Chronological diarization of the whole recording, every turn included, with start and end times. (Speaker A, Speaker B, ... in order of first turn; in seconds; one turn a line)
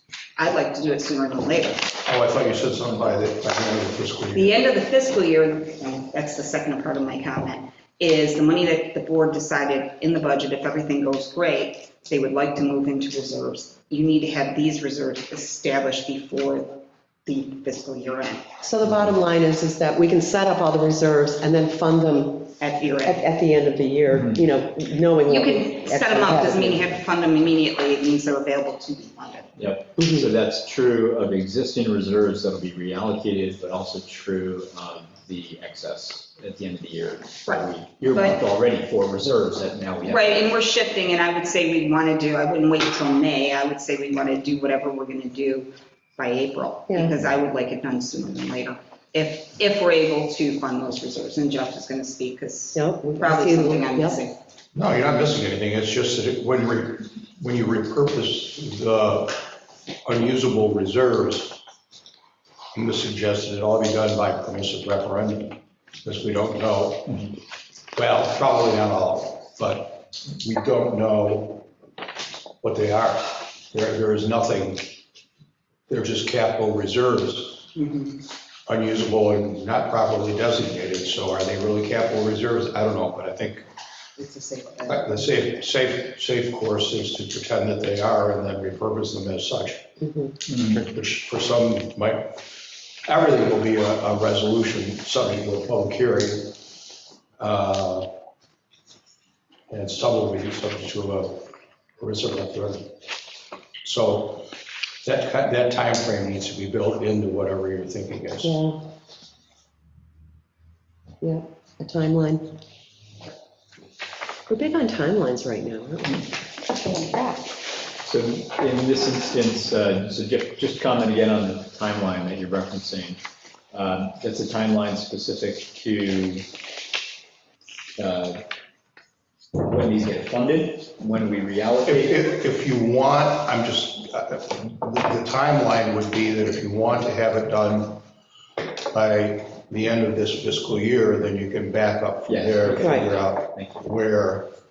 Speaker A: 0.3-2.0
Speaker B: 2.0-4.6
Speaker A: 4.3-18.5
Speaker C: 18.6-22.5
Speaker D: 18.9-19.1
Speaker A: 22.6-23.2
Speaker C: 23.0-26.9
Speaker D: 24.1-24.4
Speaker A: 25.3-29.6
Speaker D: 29.6-40.5
Speaker C: 30.0-30.2
Speaker A: 37.4-38.4
Speaker A: 40.0-54.3
Speaker C: 46.9-47.1
Speaker C: 52.7-54.2
Speaker B: 54.7-59.4
Speaker B: 60.0-61.6
Speaker B: 62.7-67.2
Speaker D: 67.1-67.3
Speaker B: 67.9-71.7
Speaker B: 72.6-75.0
Speaker B: 75.9-77.7
Speaker A: 77.7-78.2
Speaker B: 78.7-83.6
Speaker A: 84.2-85.1
Speaker B: 84.9-89.9
Speaker C: 90.0-90.3
Speaker D: 90.5-90.8
Speaker B: 90.7-92.5
Speaker B: 93.0-96.6
Speaker B: 97.4-98.1
Speaker B: 99.7-101.5
Speaker B: 102.0-102.9
Speaker B: 103.8-108.6
Speaker C: 108.4-108.8
Speaker C: 111.2-112.5
Speaker C: 114.5-116.3
Speaker D: 118.0-123.2
Speaker D: 123.7-126.5
Speaker D: 128.0-128.4
Speaker D: 129.6-132.3
Speaker B: 131.8-138.0
Speaker B: 138.9-144.5
Speaker D: 142.3-143.8
Speaker C: 142.8-143.1